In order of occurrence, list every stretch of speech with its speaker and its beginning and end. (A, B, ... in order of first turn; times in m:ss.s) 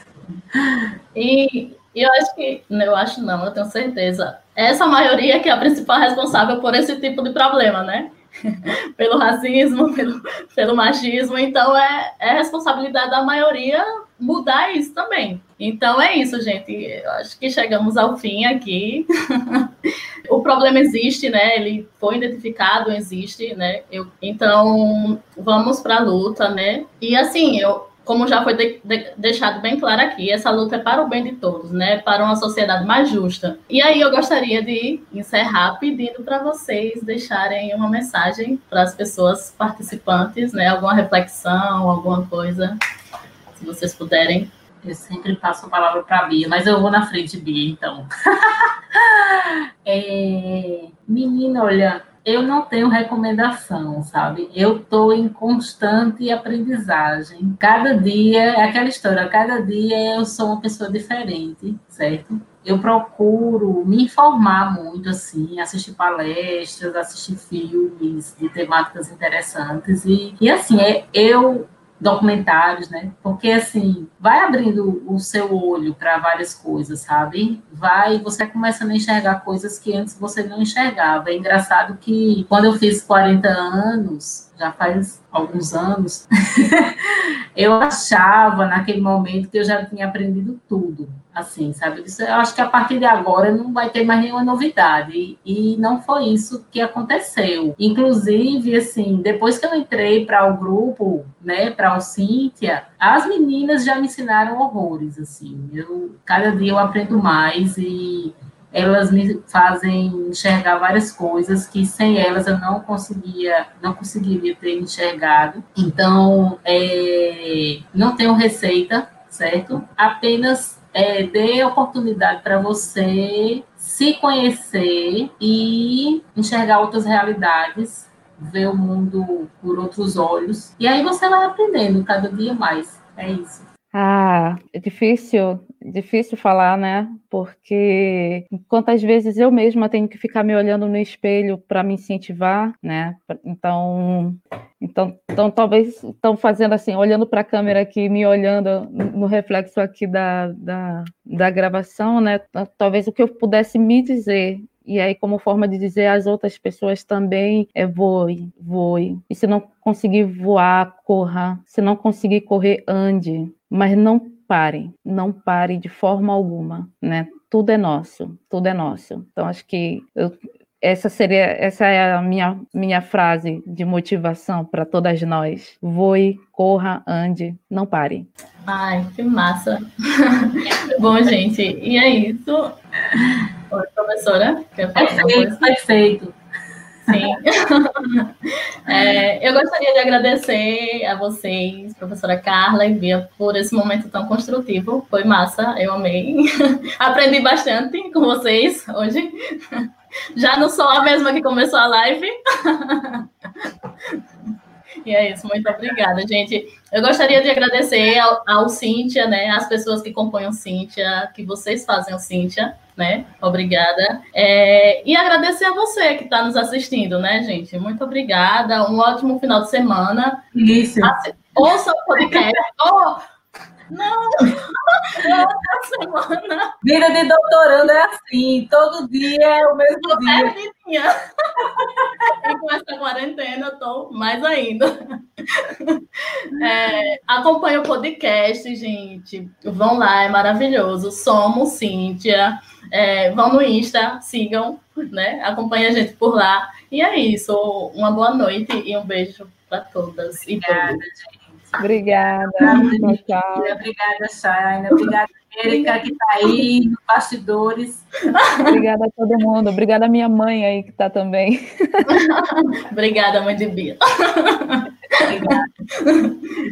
0:01.1-0:19.6 A
0:20.3-0:42.8 A
0:43.5-0:44.5 A
0:44.8-2:13.7 B
2:13.9-2:58.3 C
2:58.7-3:02.7 A
3:03.7-3:05.7 A
3:05.0-3:06.3 B
3:07.1-3:08.2 A
3:08.9-3:16.4 A
3:08.9-3:09.2 B
3:17.0-3:19.8 A
3:20.4-3:23.2 A
3:25.0-3:40.4 A
3:40.5-3:41.1 B
3:41.0-3:43.2 A
3:43.9-3:46.7 A
3:45.2-3:45.5 B
3:46.8-3:50.5 B
3:50.0-3:51.1 A
3:51.8-3:52.5 B
3:52.4-3:54.9 A
3:56.5-4:11.0 A
4:10.6-4:18.1 B
4:11.8-4:13.8 C
4:18.7-4:22.1 C
4:22.1-4:24.9 A
4:25.2-4:25.7 B
4:26.0-4:26.4 A